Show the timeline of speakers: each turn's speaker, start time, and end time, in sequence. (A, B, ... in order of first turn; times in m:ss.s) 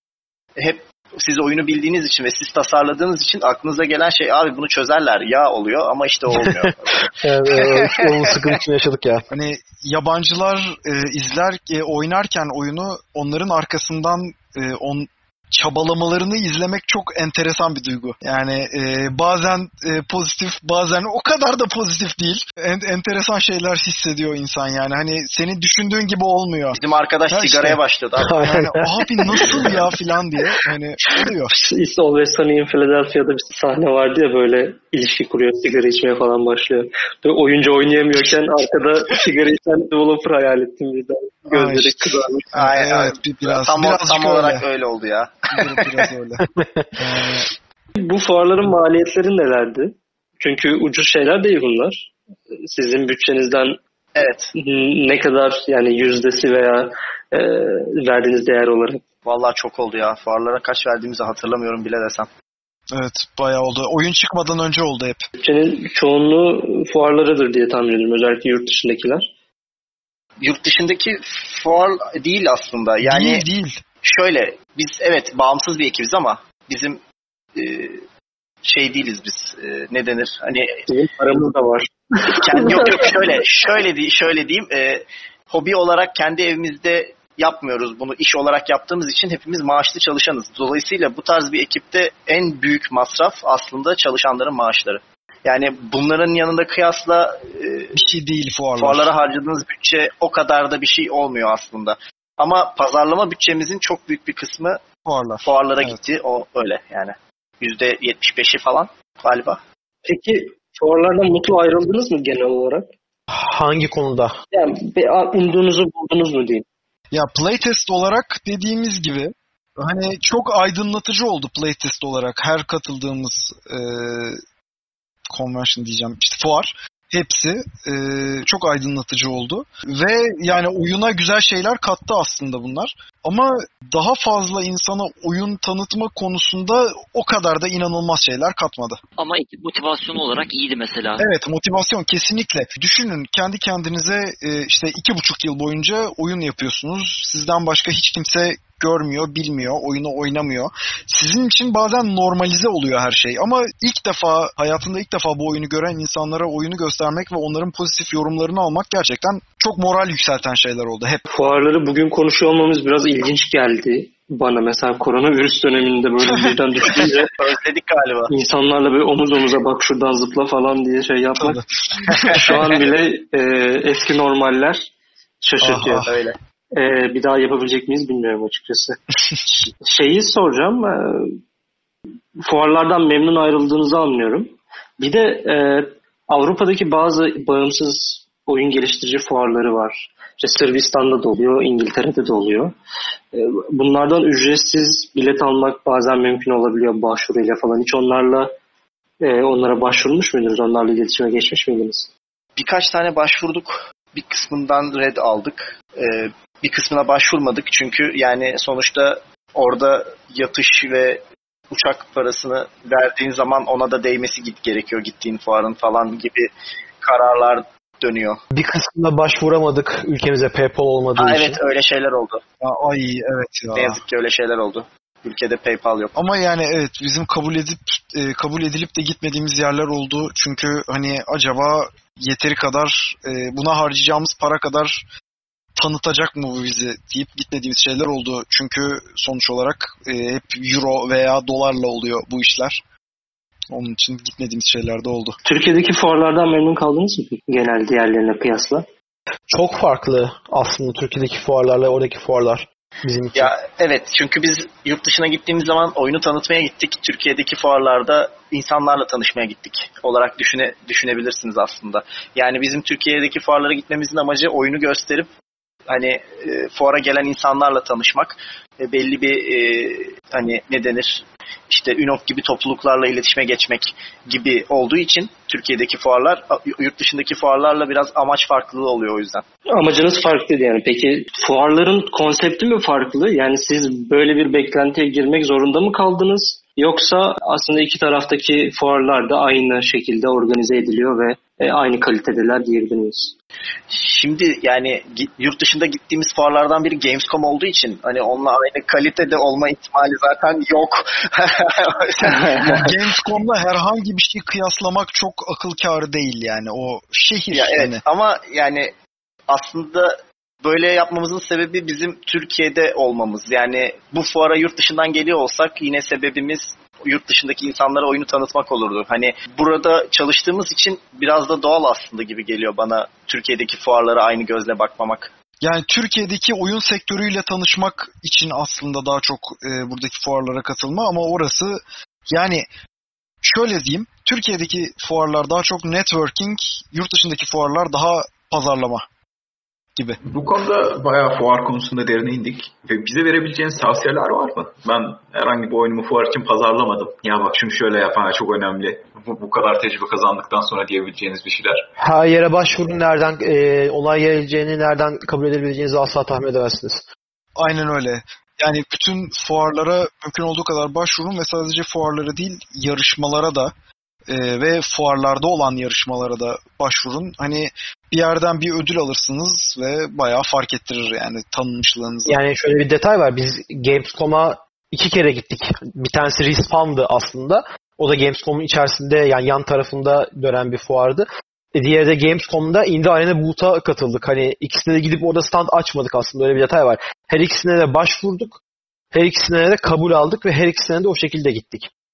0:00.6-0:08.0 A
0:07.1-0:09.2 B
0:09.3-0:26.8 C
0:26.8-0:28.4 A
0:27.3-0:27.8 C
0:28.2-0:29.5 B
0:28.4-0:31.5 C
0:31.5-0:42.5 D
0:41.5-0:44.6 C
0:42.5-0:46.0 A
0:45.5-0:46.4 C
0:46.6-0:46.9 B
0:47.0-0:47.5 C
0:48.0-0:53.8 D
0:54.2-0:54.5 A
0:54.6-0:59.0 D
0:59.2-1:02.3 A
1:02.9-1:05.2 C
1:05.4-1:09.3 D
1:10.4-1:13.4 A
1:13.0-1:13.8 C
1:14.0-1:17.0 A
1:17.6-1:18.0 A
1:18.6-1:20.8 A
1:20.9-1:23.3 D
1:22.4-1:38.0 A
1:37.9-1:39.1 C
1:38.8-1:44.8 A
1:45.0-1:46.0 C
1:45.4-1:49.6 A
1:50.0-1:52.9 D
1:53.3-1:54.4 B
1:54.5-1:56.6 D
1:57.1-2:04.4 C
2:05.3-2:19.0 C
2:19.2-2:21.2 E
2:21.2-2:41.2 C
2:41.3-2:47.3 D
2:47.3-2:48.3 A
2:48.3-2:51.6 D
2:51.4-2:52.5 C
2:52.3-2:54.9 D
2:55.4-2:56.0 D
2:55.6-2:56.1 C
2:56.0-2:56.4 A
2:56.7-2:59.0 D
2:59.6-3:01.4 D
3:02.4-3:12.7 D
3:13.3-3:18.5 D
3:19.2-3:22.1 D
3:22.6-3:36.5 A
3:37.0-3:38.4 A
3:38.5-3:41.6 B
3:41.2-3:42.4 A
3:42.6-3:44.0 C
3:43.7-3:46.1 A
3:46.1-3:55.0 C
3:55.7-4:02.8 C
4:03.7-4:05.4 C
4:05.4-4:08.8 D
4:09.5-4:13.5 B
4:13.3-4:25.3 A
4:25.9-4:39.4 A
4:39.7-4:53.3 D
4:53.9-5:02.8 A
5:02.4-5:02.8 D
5:02.5-5:08.0 C
5:07.5-5:08.9 A
5:09.5-5:25.3 A
5:25.6-5:32.7 C
5:33.4-5:39.0 C
5:40.2-5:51.9 F
5:52.0-5:57.0 B
5:57.6-6:03.7 C
6:04.3-6:12.4 C
6:12.3-6:28.6 B
6:29.1-6:31.9 B